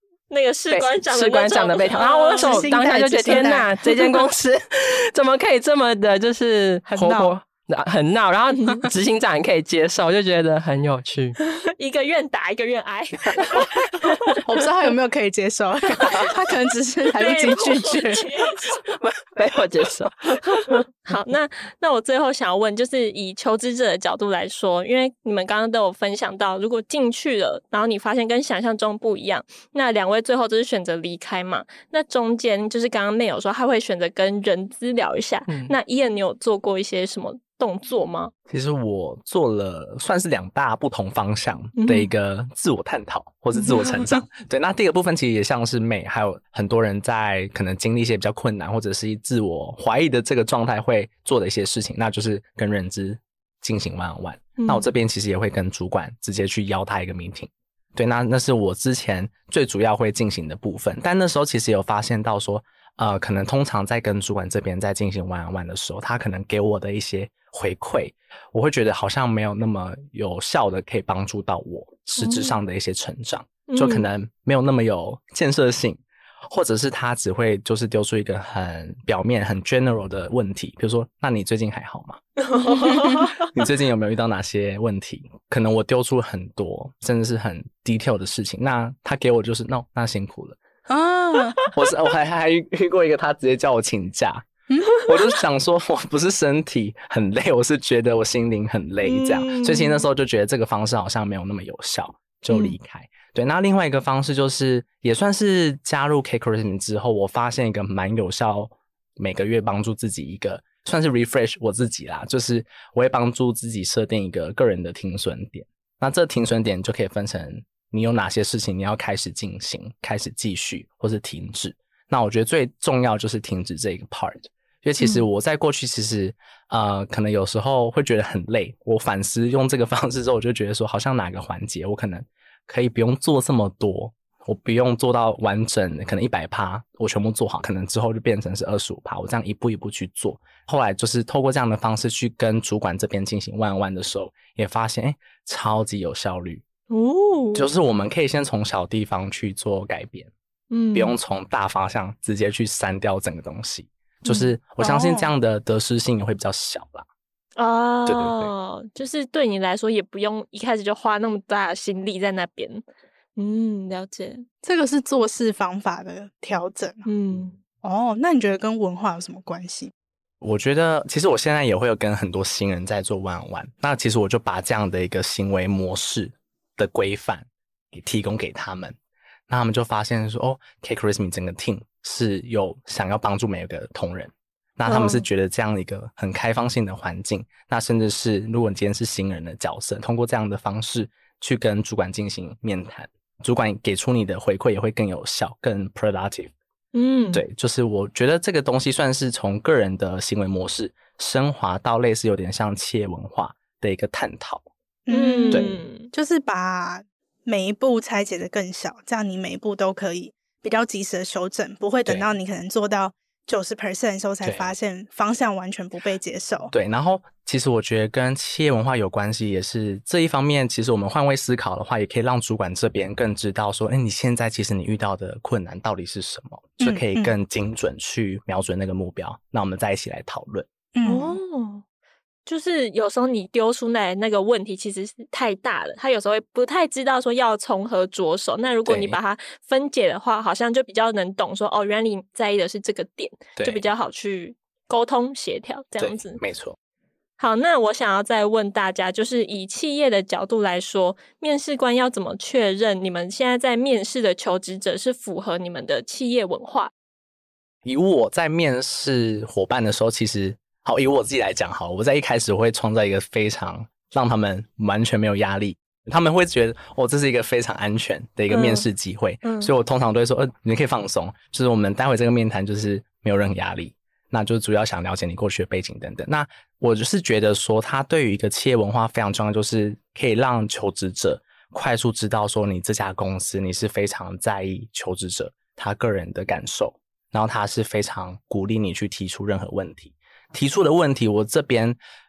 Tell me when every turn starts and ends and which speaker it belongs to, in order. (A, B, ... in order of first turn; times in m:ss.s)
0:00.3-0:02.7 A
0:00.7-0:11.4 B
0:02.4-0:03.7 C
0:06.9-0:07.4 C
0:11.6-0:14.3 A
0:14.4-0:18.3 C
0:17.2-0:18.8 A
0:18.9-0:20.8 B
0:21.0-0:38.3 A
0:35.5-0:35.8 B
0:38.5-1:22.2 D
0:41.8-0:42.1 A
0:54.6-0:54.9 A
1:12.2-1:12.6 A
1:13.7-1:14.1 A
1:22.4-1:23.5 A
1:22.9-1:23.3 C
1:22.9-1:30.6 D
1:30.9-1:31.6 C
1:31.7-1:34.5 D
1:34.7-1:35.0 C
1:35.0-2:26.6 D
1:39.0-1:40.0 A
1:42.5-1:42.8 A
2:05.0-2:05.3 A
2:26.9-2:27.7 A
2:27.5-2:30.3 D
2:30.7-2:31.2 A
2:30.9-2:37.1 D
2:34.2-2:34.5 A
2:34.8-2:35.3 C
2:37.6-2:42.8 A
2:38.1-2:38.5 D
2:43.4-2:44.4 A
2:44.6-2:47.1 C
2:47.1-2:47.6 A
2:47.8-2:49.9 C
2:50.4-2:59.0 D
2:59.5-3:16.5 D
3:04.9-3:05.2 A
3:16.9-3:17.4 A
3:17.3-3:24.7 D
3:25.1-3:36.7 C
3:25.1-3:26.1 A
3:34.4-3:34.7 D
3:36.7-3:50.7 D
3:46.8-3:47.3 C
3:50.9-3:51.4 C
3:51.0-3:51.8 A
3:52.5-4:06.4 A
3:58.9-3:59.2 D
4:03.6-4:03.8 D
4:06.0-4:06.8 D
4:07.4-4:16.9 A
4:17.8-4:52.0 D
4:28.5-4:28.8 A
4:29.4-4:29.7 A